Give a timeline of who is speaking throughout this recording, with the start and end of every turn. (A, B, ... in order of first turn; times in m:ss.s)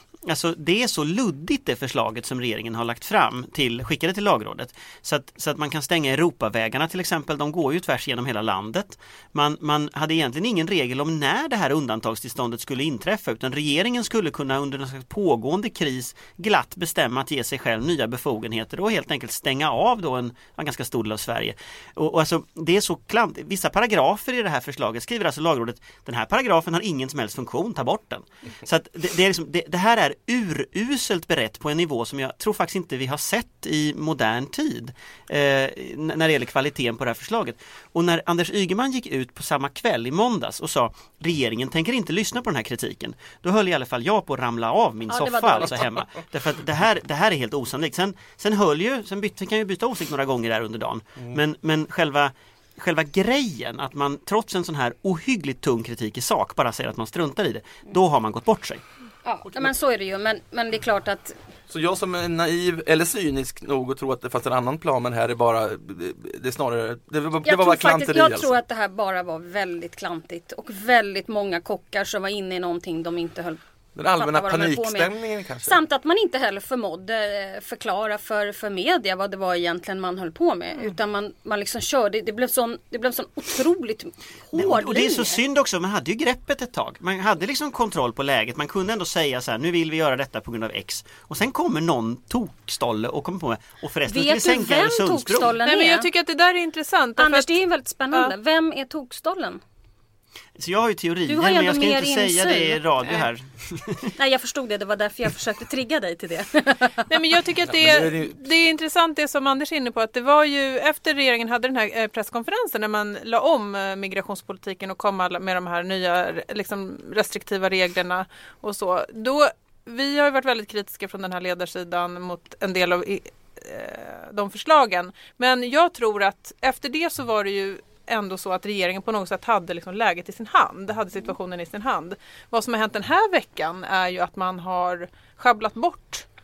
0:00.2-0:58.8 A
0:45.1-0:46.0 B
0:59.2-1:01.4 B
1:01.7-1:08.5 C
1:07.4-1:13.6 B
1:14.0-1:15.7 C
1:14.1-1:15.1 B
1:15.6-1:25.4 B
1:24.5-1:35.6 A
1:34.1-1:36.1 B
1:35.6-1:37.6 D
1:37.2-1:39.6 B
1:40.6-1:44.1 A
1:41.3-1:42.8 B
1:44.2-1:47.1 B
1:47.1-2:16.2 D
1:47.6-1:48.4 C